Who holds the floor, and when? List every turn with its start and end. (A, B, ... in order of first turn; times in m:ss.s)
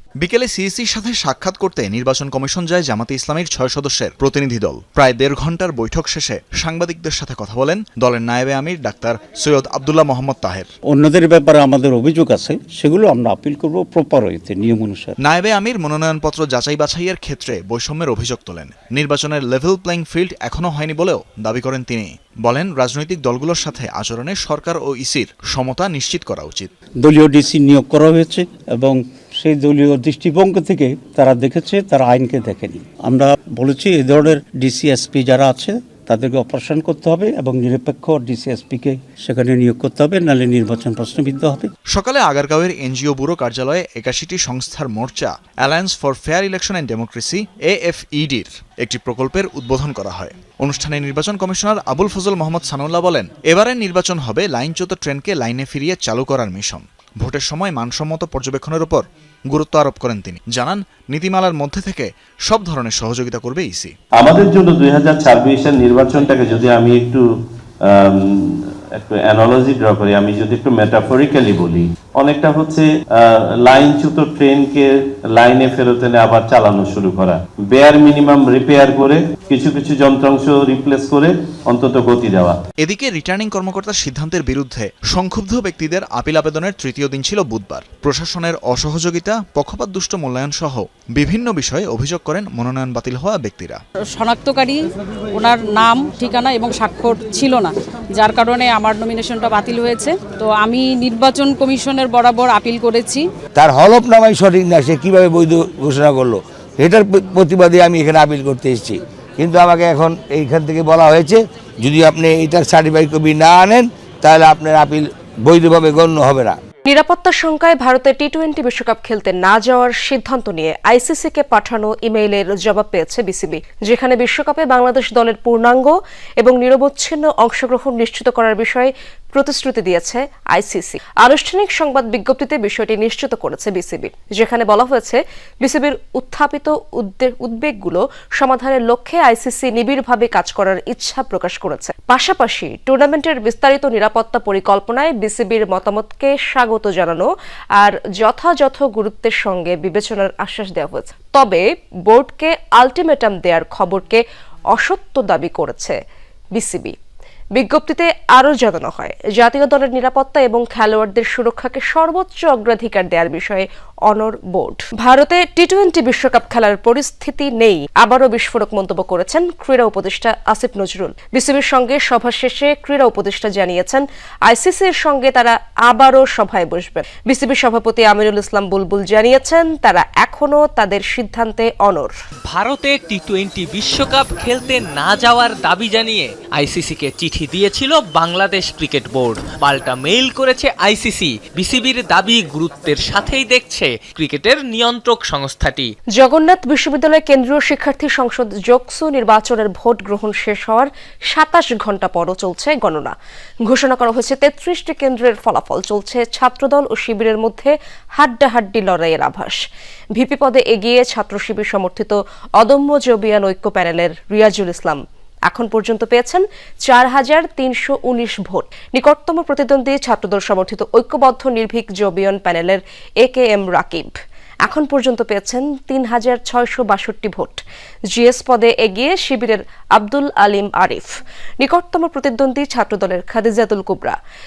0:00.2-0:10.7 A
0:10.9-0:15.2 B
0:15.2-0:26.7 A
0:27.0-0:41.7 B
0:41.9-1:03.9 A
1:04.2-1:07.2 C
1:09.0-1:12.6 C
1:12.3-1:12.8 D
1:13.7-1:14.8 C
1:15.4-1:22.5 C
1:22.8-1:33.8 A
1:34.2-1:34.8 E
1:35.3-1:43.2 E
1:43.5-1:56.6 F
1:56.8-2:34.2 G
2:34.7-2:36.0 G
2:36.6-2:37.0 G
2:37.6-3:02.1 G
3:02.5-3:15.9 D
3:16.2-3:23.1 G
3:23.6-3:29.6 G
3:30.2-3:44.1 G
3:44.6-3:47.6 G
3:48.1-3:54.1 G